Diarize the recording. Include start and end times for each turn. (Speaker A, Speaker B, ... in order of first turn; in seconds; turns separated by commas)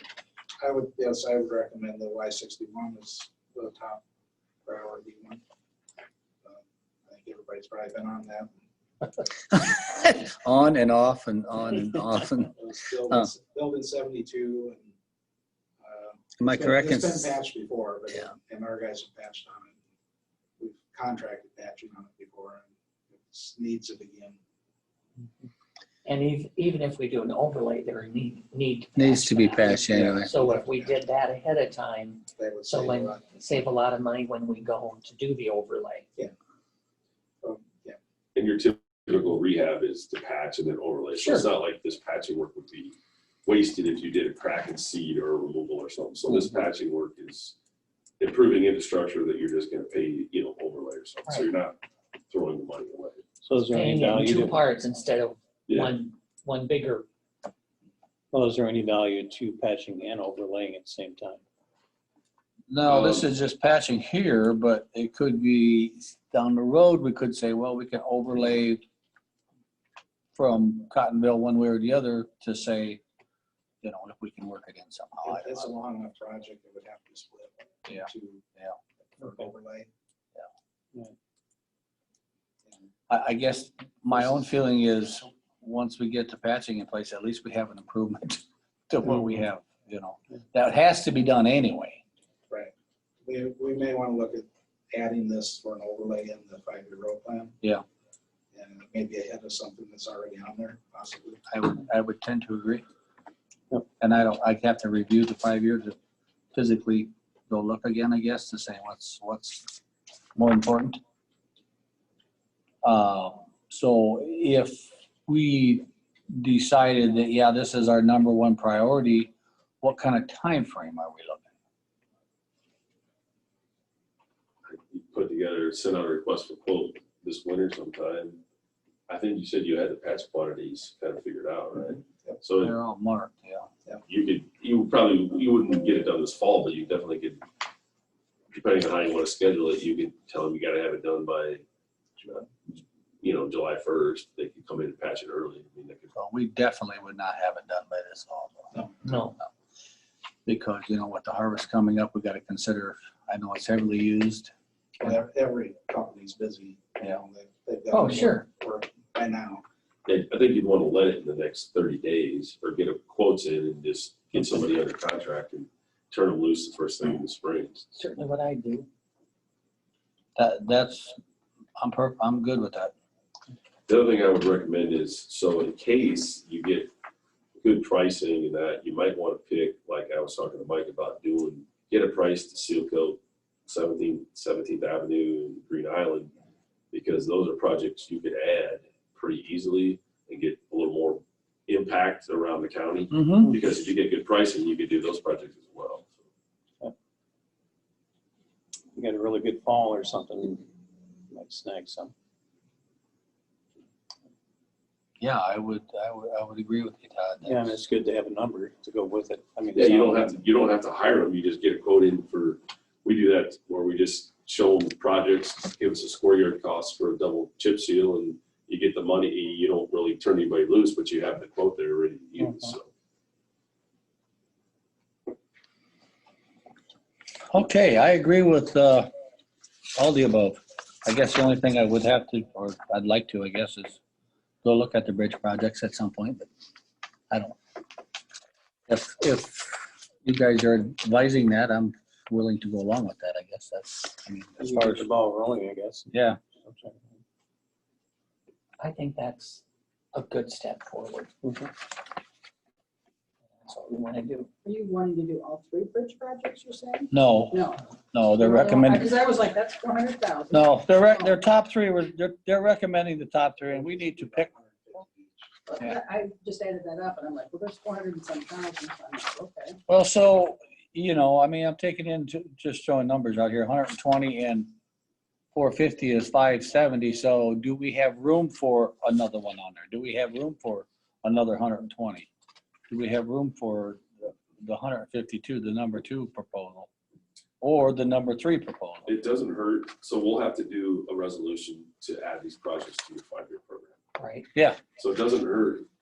Speaker A: 0.6-4.0, Speaker A: 4.7-5.4, Speaker A: 6.4-8.6, Speaker B: 9.5-12.6, Speaker A: 12.5-14.9, Speaker A: 15.8-19.8, Speaker B: 16.4-17.3, Speaker A: 20.6-24.4, Speaker C: 26.1-36.1, Speaker B: 29.0-30.3, Speaker A: 29.7-31.0, Speaker A: 32.4-33.2, Speaker A: 37.4-38.0, Speaker D: 38.4-47.5, Speaker C: 41.1-41.5, Speaker D: 48.2-51.8, Speaker D: 52.3-53.2, Speaker E: 53.4-54.6, Speaker C: 53.6-57.1, Speaker D: 55.7-55.9, Speaker E: 58.3-61.4, Speaker B: 62.7-68.8, Speaker D: 62.9-63.2, Speaker B: 70.4-73.0, Speaker B: 73.8-75.7, Speaker A: 75.2-78.5, Speaker B: 77.9-78.8, Speaker A: 79.2-79.9, Speaker B: 83.1-92.0, Speaker A: 93.2-97.5, Speaker A: 98.5-101.4, Speaker B: 101.5-102.8, Speaker B: 104.0-106.0, Speaker B: 106.5-109.7, Speaker B: 110.4-111.0, Speaker B: 112.8-121.5, Speaker D: 124.7-128.4, Speaker D: 129.1-132.8, Speaker B: 132.6-133.7, Speaker D: 134.1-137.4, Speaker D: 138.5-141.6, Speaker D: 142.2-146.1, Speaker B: 146.1-148.9, Speaker C: 149.0-149.3, Speaker B: 150.5-154.5, Speaker A: 155.0-159.6, Speaker C: 157.9-158.5, Speaker D: 160.1-167.9, Speaker C: 167.9-168.9, Speaker B: 170.4-171.2, Speaker B: 171.8-172.9, Speaker D: 173.9-176.9, Speaker D: 177.6-186.3, Speaker D: 186.9-196.2, Speaker B: 193.1-193.5, Speaker E: 198.9-200.7, Speaker E: 201.3-202.1, Speaker B: 205.2-207.8, Speaker E: 207.4-210.4, Speaker D: 209.8-222.9, Speaker E: 222.4-222.7, Speaker B: 227.5-229.1, Speaker B: 230.0-234.0, Speaker B: 234.6-236.5, Speaker B: 237.3-237.6, Speaker B: 238.9-245.1, Speaker E: 244.6-247.2, Speaker B: 246.1-246.4, Speaker C: 248.8-249.6, Speaker C: 250.1-251.3, Speaker E: 251.4-251.7, Speaker C: 253.7-254.5, Speaker F: 254.6-257.8, Speaker B: 257.1-259.1, Speaker F: 258.4-261.4, Speaker B: 260.5-264.5, Speaker A: 263.7-265.6, Speaker F: 265.7-269.8, Speaker B: 269.9-274.7, Speaker B: 275.6-282.3, Speaker B: 282.9-286.9, Speaker B: 287.6-289.1, Speaker D: 289.1-294.0, Speaker C: 294.2-294.5, Speaker D: 295.0-295.9